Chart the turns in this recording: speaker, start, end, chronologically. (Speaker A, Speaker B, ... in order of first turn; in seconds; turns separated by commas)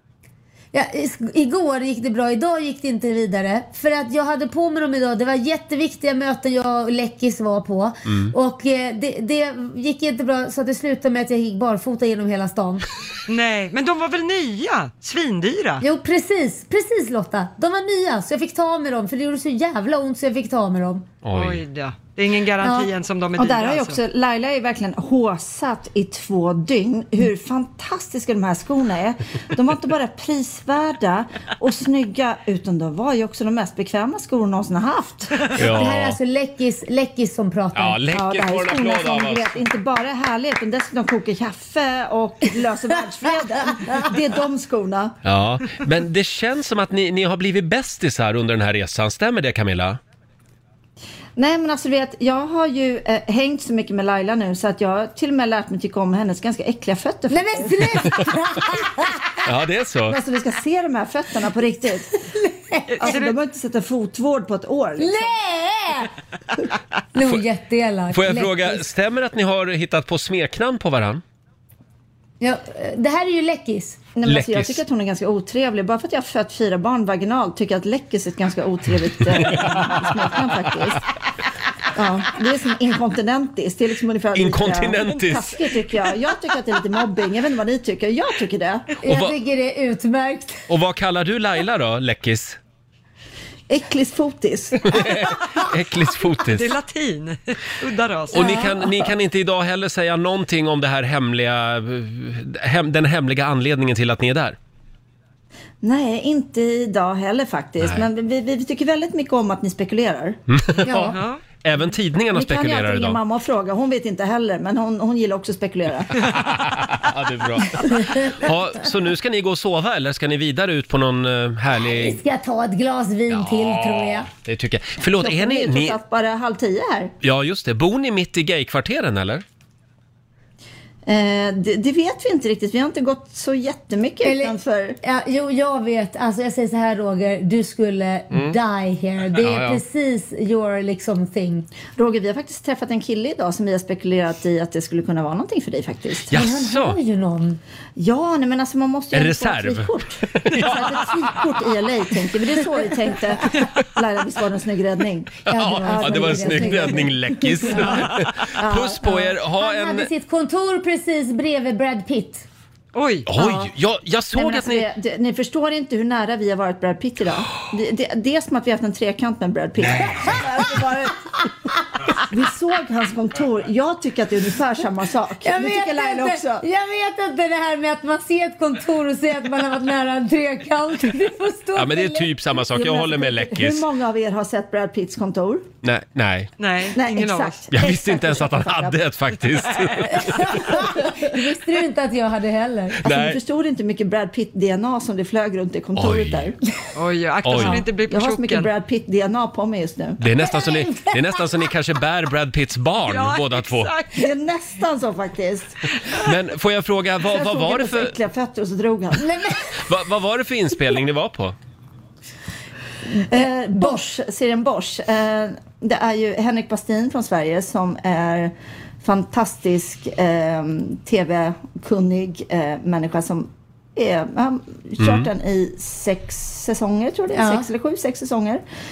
Speaker A: 0.7-12.9, Speaker B: 8.1-8.3, Speaker C: 13.3-15.8, Speaker A: 15.8-21.1, Speaker B: 21.2-21.6, Speaker C: 21.3-24.0, Speaker A: 22.6-22.9, Speaker D: 23.4-35.5, Speaker B: 35.5-36.2, Speaker A: 35.6-38.1, Speaker B: 37.7-39.6, Speaker D: 38.1-45.2, Speaker B: 45.2-50.0, Speaker D: 51.4-58.0, Speaker A: 57.3-59.3, Speaker B: 59.4-60.2, Speaker D: 60.1-62.2, Speaker A: 62.3-63.2, Speaker C: 62.9-63.3, Speaker D: 63.0-65.4, Speaker A: 65.0-66.1, Speaker A: 67.1-68.8, Speaker B: 68.1-71.2, Speaker A: 72.4-74.1, Speaker D: 74.2-81.0, Speaker B: 74.2-74.8, Speaker B: 79.4-79.9, Speaker D: 81.9-88.9, Speaker B: 84.3-85.6, Speaker A: 89.0-90.6, Speaker B: 89.1-89.3, Speaker B: 90.7-92.6, Speaker D: 93.7-95.0, Speaker B: 94.8-96.7, Speaker C: 96.5-98.7, Speaker B: 98.3-104.6, Speaker A: 98.4-98.8, Speaker D: 105.8-110.4, Speaker B: 107.8-108.1, Speaker B: 110.5-113.2, Speaker A: 110.9-111.2, Speaker C: 111.1-111.4, Speaker D: 112.3-116.2, Speaker B: 116.3-122.2, Speaker A: 118.0-118.3, Speaker A: 121.8-124.3, Speaker B: 123.3-126.0, Speaker D: 125.0-127.1, Speaker B: 127.2-129.4, Speaker D: 131.1-135.0, Speaker A: 134.2-141.7, Speaker B: 138.3-138.6, Speaker B: 139.3-139.8, Speaker D: 141.9-146.4, Speaker B: 146.3-147.0, Speaker A: 146.3-147.6, Speaker D: 148.0-159.3, Speaker B: 149.1-151.1, Speaker A: 155.5-157.9, Speaker B: 155.5-160.1, Speaker A: 159.3-162.4, Speaker C: 162.9-163.3, Speaker B: 163.3-164.9, Speaker D: 163.4-163.7, Speaker D: 164.3-171.4, Speaker D: 172.2-176.7, Speaker A: 175.4-182.3, Speaker B: 181.8-183.9, Speaker D: 182.7-185.7, Speaker B: 185.8-186.5, Speaker C: 186.6-187.6, Speaker D: 186.9-189.0, Speaker B: 187.7-190.7, Speaker A: 190.2-193.1, Speaker D: 190.7-191.2, Speaker B: 193.0-193.4, Speaker D: 193.0-196.6, Speaker B: 196.0-196.5, Speaker C: 196.9-198.7, Speaker B: 197.4-197.8, Speaker D: 198.1-200.2, Speaker B: 200.2-203.9, Speaker A: 200.6-201.1, Speaker C: 203.1-204.2, Speaker D: 204.1-205.8, Speaker B: 206.2-208.2, Speaker D: 207.2-209.6, Speaker A: 209.2-209.6, Speaker B: 209.8-211.6, Speaker D: 213.1-228.6, Speaker B: 225.0-225.3, Speaker A: 227.3-227.7